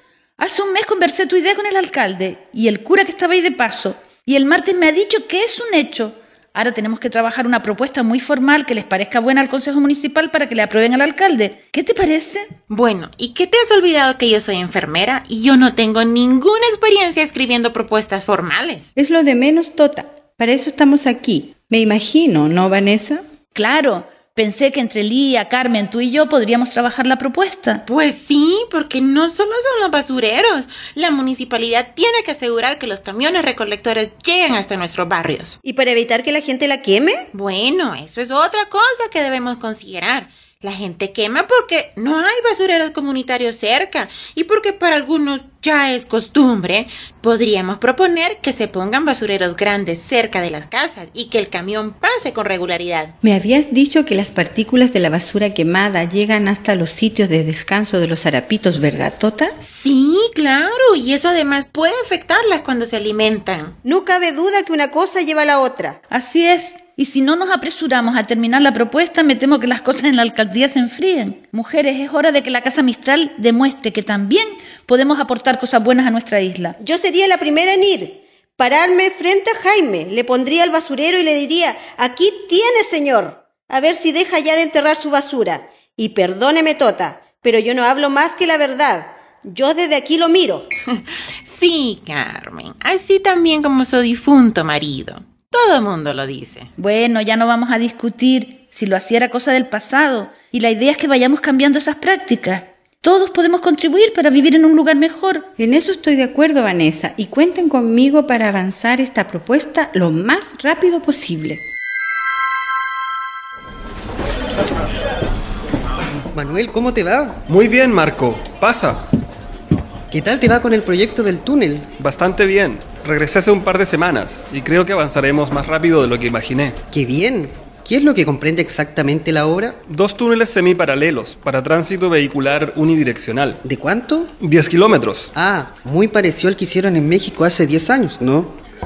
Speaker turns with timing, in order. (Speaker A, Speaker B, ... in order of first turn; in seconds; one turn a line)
Speaker A: 0.4-12.5
Speaker B: 12.7-18.9
Speaker C: 19.0-23.2
Speaker A: 23.6-27.8
Speaker B: 27.9-35.6
Speaker D: 35.6-37.3
Speaker B: 37.3-53.1
Speaker C: 53.2-59.5
Speaker B: 59.6-63.8
Speaker D: 63.8-66.0
Speaker A: 66.1-76.8
Speaker D: 76.8-90.7
Speaker B: 91.5-96.7
Speaker A: 96.8-105.5
Speaker C: 105.6-111.6
Speaker E: 116.3-117.4
Speaker F: 117.5-119.0
Speaker E: 120.1-121.9
Speaker F: 122.0-126.8
Speaker E: 126.9-129.8
Speaker F: 129.9-133.6
Speaker E: 133.7-134.3
Speaker F: 134.4-135.3
Speaker E: 135.4-138.5